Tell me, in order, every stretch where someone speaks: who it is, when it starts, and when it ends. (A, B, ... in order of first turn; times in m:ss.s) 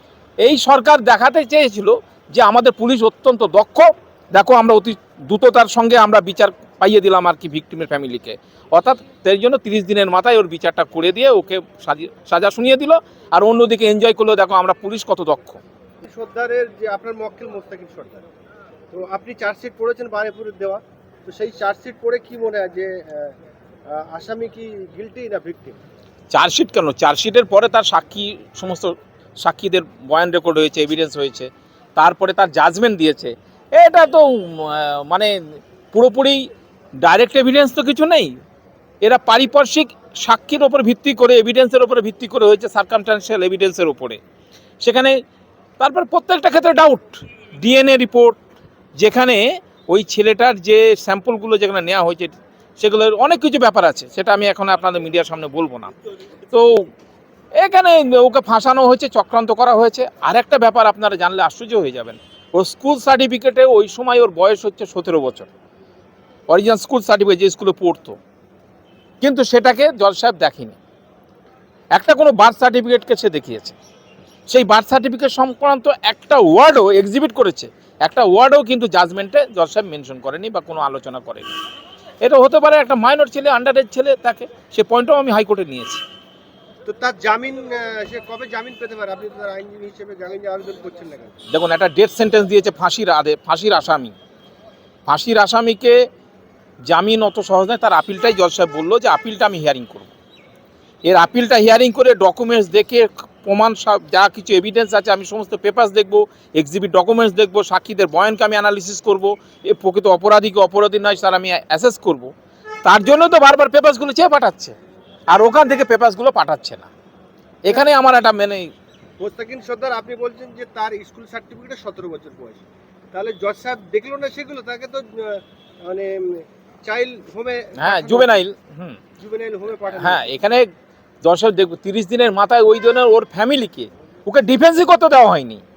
0:00.4-0:15.6 A
0:16.0-0:18.2 B
0:18.9-0:23.3 B
0:23.9-0:25.8 B
0:26.3-0:35.4 A
0:35.9-0:36.4 A
0:37.0-0:38.3 A
0:39.0-0:44.2 A
0:44.8-0:45.2 A
0:45.8-0:48.4 A
0:49.0-0:55.9 A
0:56.5-0:56.8 A
0:57.6-1:05.5 A
1:06.5-1:08.2 A
1:09.2-1:10.8 A
1:11.9-1:13.8 A
1:14.5-1:21.5 A
1:22.2-1:26.0 A
1:26.8-1:31.3 B
1:31.5-1:34.1 A
1:35.1-1:36.0 A
1:36.9-1:40.1 A
1:41.0-1:52.3 A
1:52.8-1:54.7 A
1:55.3-1:56.9 A
1:57.6-1:58.7 A
1:59.2-2:08.4 B
2:07.8-2:09.0 A
2:09.2-2:10.3 B
2:09.9-2:10.7 A
2:11.2-2:15.6 A